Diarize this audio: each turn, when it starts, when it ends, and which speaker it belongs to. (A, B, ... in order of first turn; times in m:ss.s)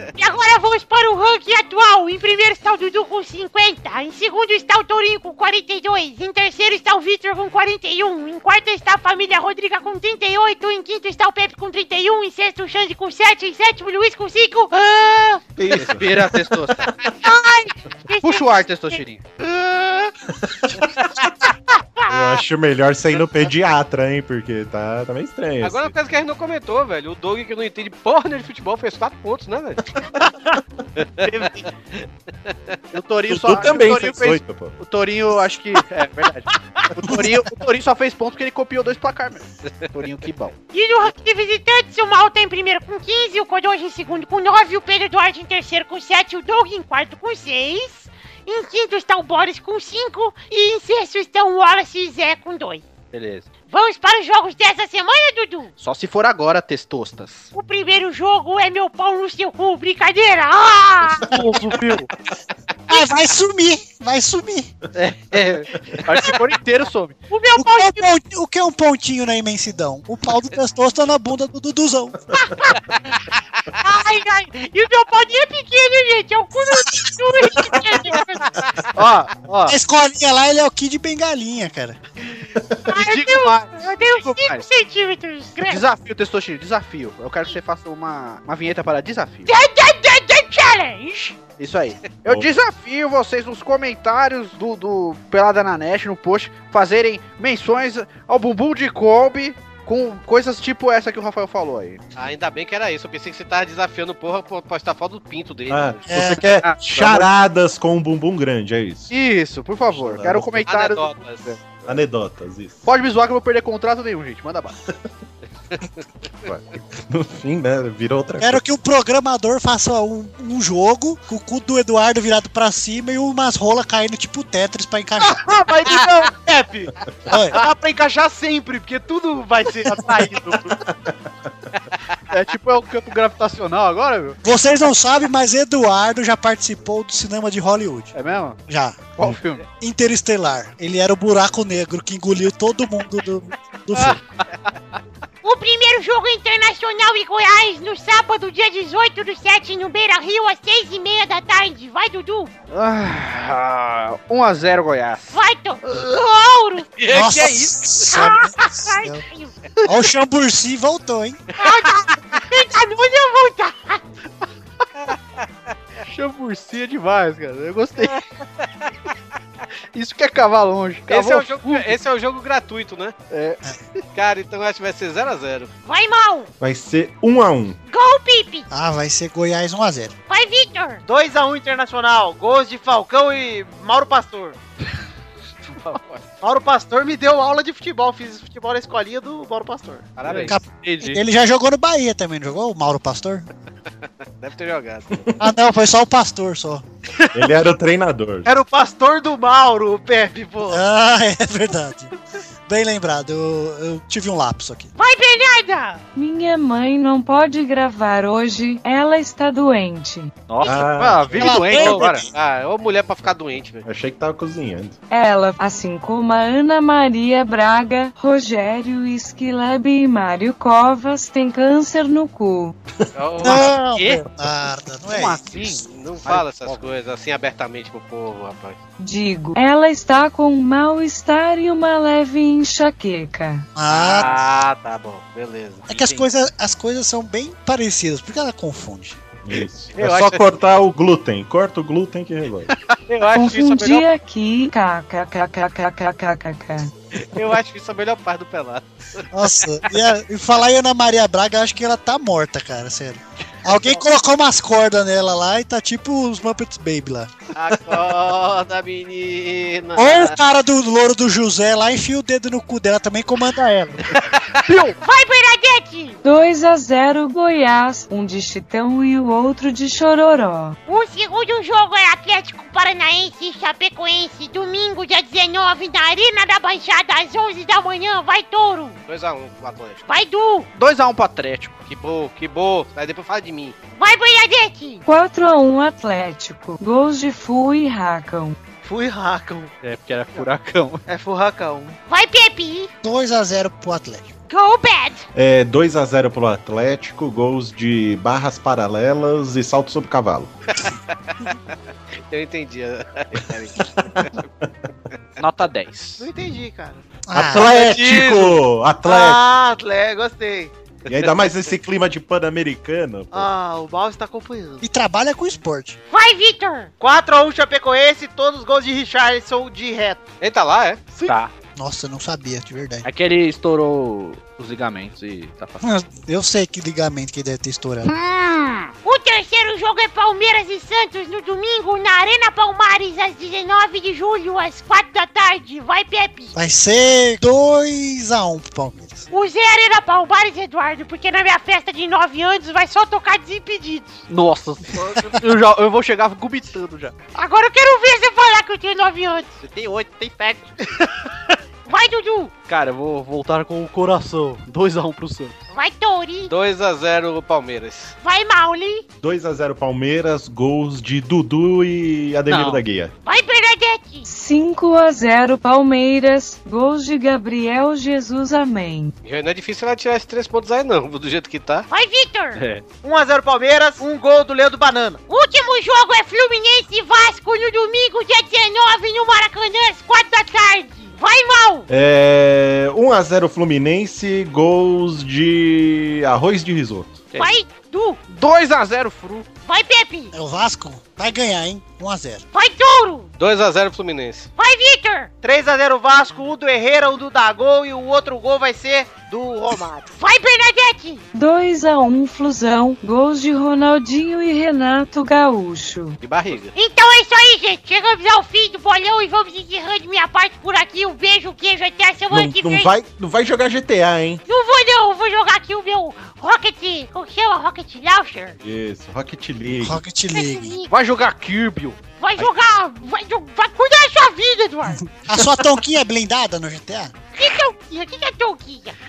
0:00.2-0:15.4 A
0:15.6-0:16.5 B
0:15.7-0:16.9 C
0:17.2-0:19.0 A
0:18.1-0:19.2 C
0:19.7-0:20.0 D
0:20.3-0:20.8 B
0:21.7-0:22.2 A
0:22.1-0:25.9 B
0:25.6-0:29.8 E
0:31.0-0:31.3 E
0:31.2-0:31.7 C
0:32.5-0:32.8 E
0:32.9-0:40.6 C
0:33.3-0:34.8 B
0:40.7-0:52.8 A
0:53.1-0:53.5 C
0:53.7-0:55.7 A
0:55.8-0:57.5 C
0:57.5-1:01.3 A
1:01.1-1:02.1 C
1:02.9-1:04.7 F
1:04.9-1:07.2 C
1:07.3-1:08.1 A
1:07.6-1:12.2 F
1:12.3-1:12.8 A
1:13.8-1:18.5 A
1:18.9-1:19.8 C
1:19.6-1:22.0 F
1:22.9-1:25.8 A
1:22.9-1:24.6 C
1:25.6-1:29.5 C
1:29.5-1:31.4 A
1:31.6-1:42.0 C
1:42.2-1:46.0 E
1:45.7-1:49.1 B
1:46.1-1:46.4 F
1:46.2-1:47.3 C
1:49.1-1:51.6 C
1:49.9-1:50.6 B
1:50.7-1:51.6 E
1:51.8-1:52.8 B
1:52.8-1:54.8 C
1:56.4-1:58.6 B
1:58.4-2:05.4 F
2:05.3-2:10.8 D
2:07.3-2:07.6 F
2:10.8-2:11.3 B
2:12.3-2:14.4 C
2:14.4-2:18.1 F
2:18.1-2:18.6 C
2:18.7-2:19.1 F
2:19.2-2:19.6 C
2:19.8-2:24.2 F
2:25.4-2:32.5 A
2:32.7-2:35.4 C
2:35.3-2:36.9 A
2:37.0-2:37.4 E
2:37.1-2:37.7 C
2:37.1-2:39.2 F
2:38.1-2:39.5 A
2:39.8-2:41.4 F
2:41.6-2:44.0 A
2:46.0-2:48.2 C
2:49.9-2:51.9 C
2:51.1-2:53.1 E
2:53.3-2:53.6 C
2:54.1-2:55.7 E
2:55.8-2:56.5 A
2:56.6-2:57.8 B
2:57.9-2:58.7 A
2:58.7-3:00.1 F
3:00.3-3:01.0 A
3:01.0-3:04.6 D
3:05.7-3:06.0 C
3:06.4-3:10.1 D
3:10.2-3:10.5 E
3:10.2-3:11.2 C
3:10.4-3:13.5 F
3:14.4-3:15.3 E
3:15.4-3:16.8 F
3:17.1-3:17.5 D
3:17.3-3:18.5 B
3:18.4-3:20.8 D
3:20.7-3:22.1 F
3:22.7-3:24.9 F
3:25.0-3:26.0 A
3:26.1-3:30.4 G
3:30.5-3:32.3 C
3:30.6-3:31.4 B
3:31.4-3:32.3 F
3:31.6-3:33.8 E
3:33.8-3:35.0 B
3:35.1-3:42.7 G
3:43.1-3:43.6 E
3:43.4-3:44.2 C
3:43.4-3:45.8 F
3:45.0-3:46.9 C
3:45.9-3:48.8 E
3:49.0-3:53.7 G
3:53.8-3:54.4 F
3:53.9-3:56.2 E
3:55.9-3:59.2 F
3:59.4-4:02.7 B
3:59.9-4:00.4 E
4:03.1-4:04.0 E
4:03.3-4:06.9 G
4:07.1-4:09.3 E
4:09.3-4:17.3 F
4:17.5-4:20.4 E
4:19.9-4:24.1 F
4:24.6-4:25.0 C
4:25.0-4:26.2 A
4:26.2-4:30.8 G
4:30.9-4:39.0 A
4:39.1-4:40.0 E
4:40.1-4:40.7 A
4:40.7-4:41.8 C
4:41.9-4:43.8 E
4:44.0-4:45.0 A
4:45.0-4:48.6 G
4:48.8-4:49.7 D
4:49.8-4:51.0 C
4:51.1-4:52.0 D
4:52.1-4:52.9 A
4:53.0-4:54.3 F
4:54.5-4:55.2 A
4:55.3-5:00.5 B
5:02.3-5:04.4 E
5:04.0-5:04.7 B
5:05.4-5:06.3 C
5:06.2-5:07.0 D
5:07.3-5:07.7 F
5:07.3-5:09.4 B
5:07.6-5:08.6 E
5:09.0-5:10.7 D
5:11.1-5:11.5 E
5:11.1-5:13.5 B
5:13.3-5:14.8 D
5:14.8-5:16.0 F
5:16.1-5:16.9 A
5:17.0-5:20.2 D
5:20.4-5:21.0 E
5:21.2-5:21.5 C
5:21.8-5:23.0 F
5:23.0-5:25.8 C
5:25.8-5:28.1 F
5:28.0-5:28.9 C
5:29.0-5:36.5 A
5:36.5-5:39.3 F
5:39.3-5:44.2 A
5:44.3-5:47.1 C
5:47.3-5:49.5 A
5:49.6-5:50.7 C
5:51.8-5:52.5 A
5:52.7-5:55.5 C
5:55.7-5:56.5 A
5:56.5-5:58.1 E
5:58.2-5:59.0 A
5:59.2-6:03.1 B
6:02.5-6:02.8 C
6:03.2-6:04.2 A
6:04.2-6:09.1 G
6:09.2-6:11.9 E
6:11.9-6:12.6 A
6:12.6-6:12.8 C
6:13.0-6:15.2 D
6:15.3-6:21.9 A
6:21.9-6:27.3 B
6:27.3-6:28.2 A
6:28.3-6:29.5 C
6:29.6-6:30.3 A
6:30.3-6:32.4 F
6:32.5-6:33.3 A
6:33.4-6:34.5 E
6:34.6-6:35.3 A
6:35.4-6:40.1 D
6:40.2-6:41.2 A
6:41.3-6:46.2 G
6:46.2-6:46.7 E
6:46.7-6:52.9 A
6:52.3-6:54.4 B
6:54.5-6:58.6 A
6:58.6-7:00.0 B
6:59.8-7:00.8 F
7:00.3-7:00.9 A
7:00.9-7:02.0 C
7:02.2-7:05.0 A
7:05.1-7:07.1 F
7:07.3-7:09.0 A